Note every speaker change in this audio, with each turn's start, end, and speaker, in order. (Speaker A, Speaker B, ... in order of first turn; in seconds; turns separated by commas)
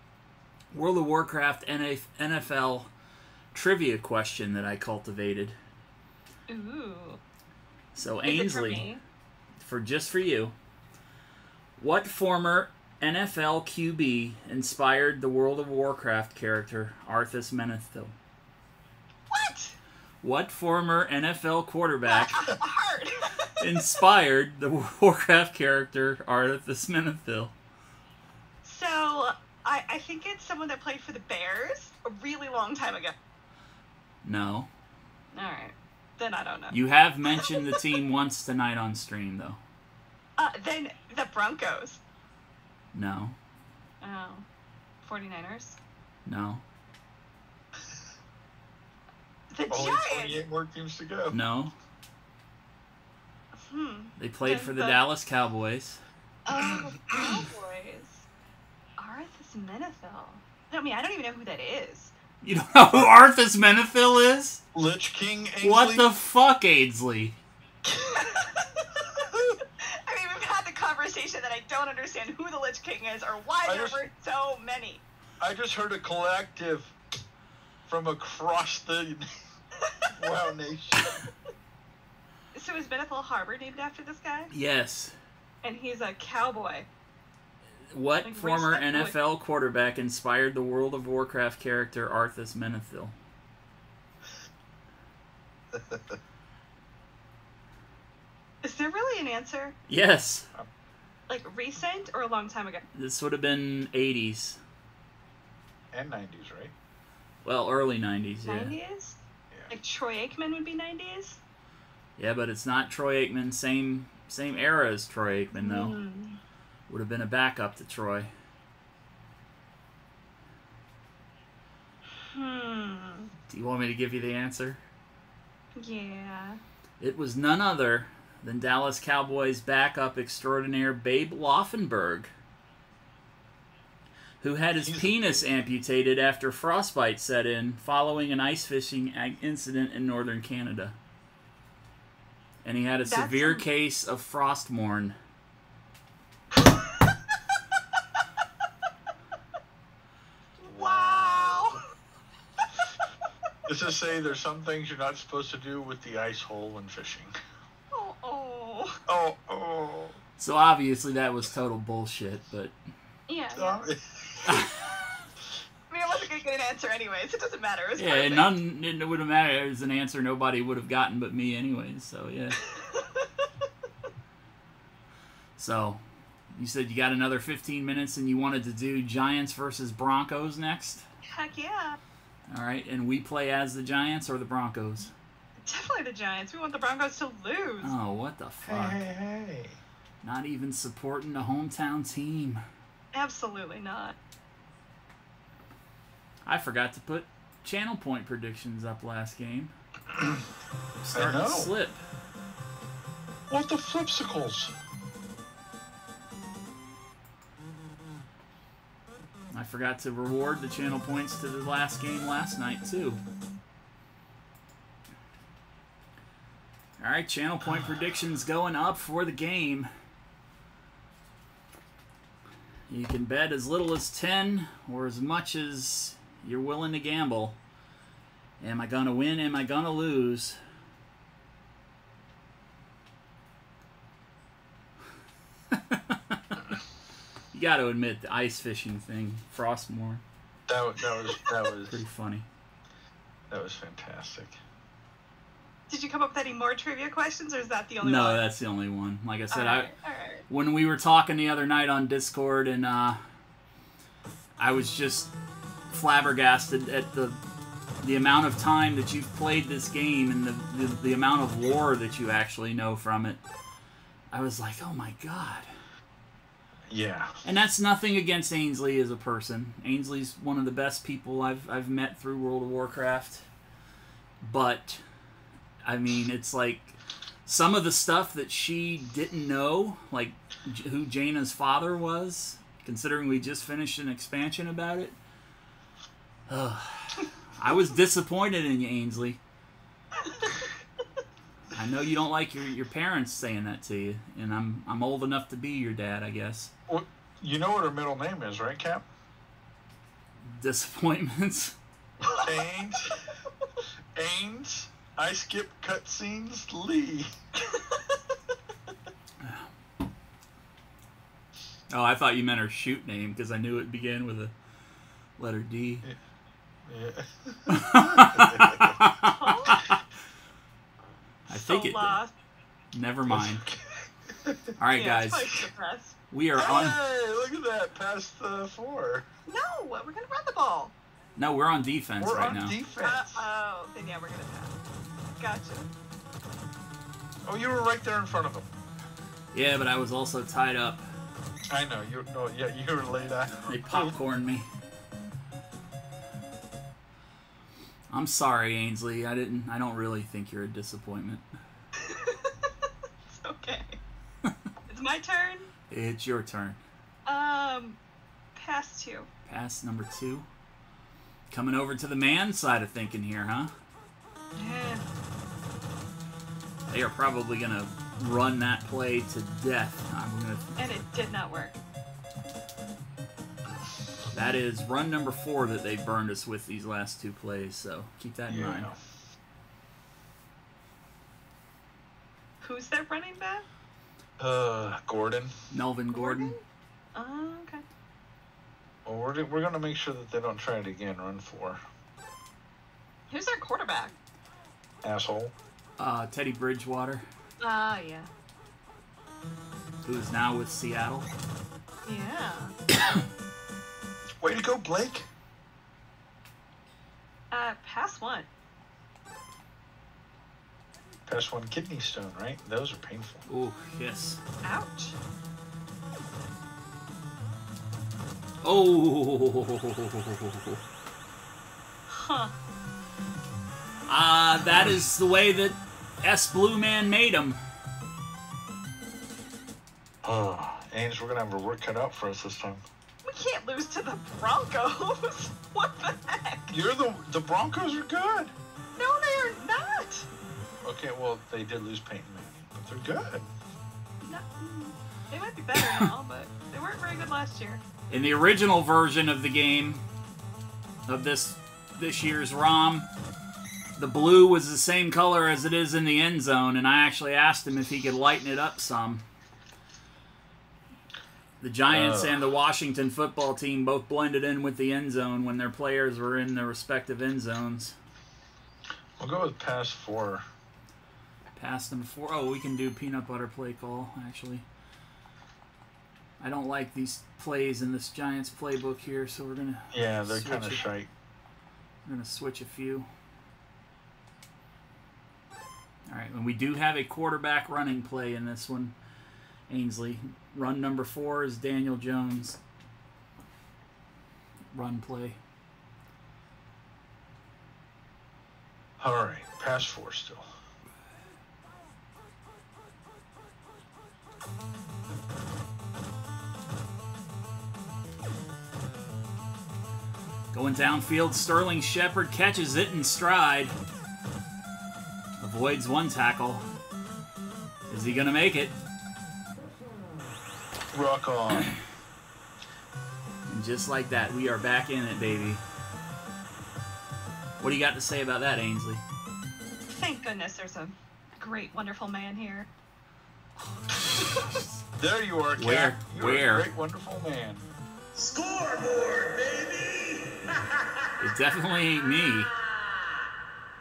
Speaker A: 0.7-2.9, Speaker A: 3.5-5.5, Speaker B: 6.5-7.2, Speaker A: 7.9-8.8, Speaker B: 8.2-9.0, Speaker A: 9.6-10.5, Speaker A: 11.8-18.1, Speaker B: 19.3-19.8, Speaker A: 20.2-22.5, Speaker B: 22.1-23.5, Speaker A: 23.6-27.5, Speaker B: 28.6-33.1, Speaker A: 34.2-34.7, Speaker B: 35.3-36.8, Speaker A: 36.7-39.6, Speaker B: 37.3-37.7, Speaker B: 40.4-42.0, Speaker A: 42.9-43.4, Speaker B: 44.0-44.4, Speaker B: 45.0-45.8, Speaker A: 46.2-46.6, Speaker B: 49.5-50.4, Speaker C: 49.7-51.4, Speaker A: 51.3-51.7, Speaker B: 53.6-55.0, Speaker A: 54.2-56.0, Speaker B: 56.5-58.2, Speaker C: 56.6-57.4, Speaker B: 59.0-62.1, Speaker A: 62.4-64.6, Speaker C: 64.7-66.1, Speaker A: 65.6-67.4, Speaker C: 67.8-68.4, Speaker B: 68.1-69.1, Speaker C: 69.3-69.6, Speaker B: 69.8-75.0, Speaker C: 73.6-74.0, Speaker C: 75.4-76.9, Speaker C: 77.9-79.3, Speaker C: 80.1-81.2, Speaker B: 82.5-84.5, Speaker A: 84.5-85.2, Speaker B: 85.6-86.9, Speaker A: 87.9-93.1, Speaker B: 88.2-89.1, Speaker C: 95.7-96.0, Speaker B: 98.6-99.8, Speaker A: 99.9-100.5, Speaker B: 101.3-102.8, Speaker A: 102.9-104.6, Speaker C: 105.9-106.7, Speaker A: 107.4-108.8, Speaker B: 108.5-111.4, Speaker A: 112.2-116.0, Speaker B: 115.5-116.4, Speaker A: 116.9-118.3, Speaker B: 122.3-123.3, Speaker A: 123.5-124.8, Speaker B: 125.8-126.6, Speaker A: 127.0-132.3, Speaker A: 134.4-140.9, Speaker C: 134.8-135.5, Speaker A: 142.6-145.2, Speaker B: 143.1-143.7, Speaker B: 150.6-151.8, Speaker C: 150.6-151.8, Speaker C: 153.7-157.3, Speaker B: 157.9-159.0, Speaker C: 159.1-160.2, Speaker A: 160.4-162.7, Speaker B: 163.3-163.9, Speaker C: 163.6-164.7, Speaker A: 164.4-164.7, Speaker B: 165.9-168.5, Speaker A: 168.0-172.6, Speaker B: 172.8-173.3, Speaker A: 175.6-176.0, Speaker A: 176.5-181.0, Speaker B: 181.2-182.0, Speaker A: 182.5-185.1, Speaker B: 185.6-187.9, Speaker A: 187.8-189.0, Speaker C: 188.6-189.8, Speaker A: 190.2-192.6, Speaker B: 193.1-194.1, Speaker A: 196.4-199.7, Speaker C: 200.1-200.4, Speaker A: 201.0-202.0, Speaker C: 201.1-201.7, Speaker C: 203.5-204.7, Speaker A: 209.5-213.2, Speaker A: 217.0-219.9, Speaker A: 222.9-227.6, Speaker A: 228.6-230.6, Speaker A: 235.7-236.6, Speaker A: 237.5-240.2, Speaker C: 240.7-242.0, Speaker A: 241.9-242.4, Speaker C: 243.5-244.6, Speaker B: 245.9-248.4, Speaker A: 248.0-249.9, Speaker B: 249.5-250.4, Speaker A: 250.5-253.2, Speaker A: 254.6-255.3, Speaker A: 255.9-257.4, Speaker A: 258.0-263.4, Speaker A: 264.3-265.7, Speaker C: 266.9-267.4, Speaker A: 267.4-273.5, Speaker A: 274.4-275.0, Speaker A: 275.8-285.1, Speaker A: 286.5-289.4, Speaker B: 290.2-290.5, Speaker A: 291.7-296.7, Speaker C: 296.9-299.0, Speaker A: 300.4-301.8, Speaker B: 302.2-302.6, Speaker C: 302.2-303.2, Speaker C: 304.1-307.6, Speaker A: 309.4-309.7, Speaker A: 311.9-314.5, Speaker A: 315.4-316.1, Speaker C: 316.9-319.0, Speaker A: 317.7-319.8, Speaker B: 319.4-319.9, Speaker A: 321.5-322.2, Speaker B: 321.5-322.3, Speaker A: 322.9-323.6, Speaker C: 323.3-324.7, Speaker A: 324.8-325.6, Speaker B: 324.9-326.9, Speaker A: 326.3-327.0, Speaker C: 326.5-329.2, Speaker B: 329.5-330.9, Speaker A: 331.4-332.8, Speaker C: 332.2-333.4, Speaker B: 333.0-334.7, Speaker B: 335.4-335.9, Speaker C: 337.4-338.7, Speaker A: 339.5-341.1, Speaker C: 341.7-344.1, Speaker A: 343.7-344.7, Speaker A: 348.1-351.4, Speaker B: 352.0-352.7, Speaker B: 353.3-354.0, Speaker B: 354.9-355.7, Speaker A: 355.9-356.8, Speaker B: 357.2-358.0, Speaker B: 358.5-359.3, Speaker A: 359.4-360.4, Speaker A: 361.5-363.7, Speaker B: 364.6-365.0, Speaker A: 366.9-370.7, Speaker B: 370.8-371.8, Speaker A: 374.3-378.9, Speaker C: 378.5-379.0, Speaker B: 382.6-383.6, Speaker C: 384.4-385.5, Speaker A: 385.7-386.5, Speaker B: 386.1-386.6, Speaker B: 387.1-387.8, Speaker C: 389.1-391.8, Speaker B: 393.3-394.1, Speaker C: 395.0-395.5, Speaker A: 396.0-397.2, Speaker B: 397.6-398.3, Speaker A: 400.0-401.3, Speaker B: 402.1-402.7, Speaker C: 404.4-405.3, Speaker B: 407.5-408.5, Speaker C: 411.3-413.4, Speaker A: 413.5-414.4, Speaker B: 414.6-415.1, Speaker A: 418.6-420.8, Speaker B: 422.1-422.5, Speaker A: 424.1-427.6, Speaker C: 430.2-432.8, Speaker B: 433.3-436.7, Speaker C: 436.7-438.5, Speaker B: 439.0-440.3, Speaker C: 440.8-443.5, Speaker B: 444.2-447.8, Speaker A: 445.8-446.1, Speaker A: 448.1-450.0, Speaker A: 451.1-453.1, Speaker A: 454.0-459.2, Speaker A: 461.6-467.9, Speaker C: 461.9-462.4, Speaker C: 469.2-470.4, Speaker A: 471.5-474.6, Speaker A: 476.4-480.9, Speaker C: 479.9-481.1, Speaker A: 482.0-483.1, Speaker A: 486.1-488.9, Speaker A: 489.7-492.6, Speaker A: 494.7-495.4, Speaker C: 499.0-500.5, Speaker A: 510.5-513.7, Speaker A: 515.4-516.6, Speaker A: 517.9-518.7, Speaker C: 520.9-521.7, Speaker A: 523.5-525.6, Speaker A: 527.6-529.0, Speaker B: 529.9-532.7, Speaker A: 533.8-534.8, Speaker C: 535.0-537.7, Speaker A: 535.6-536.7, Speaker D: 538.1-541.1, Speaker A: 541.2-542.5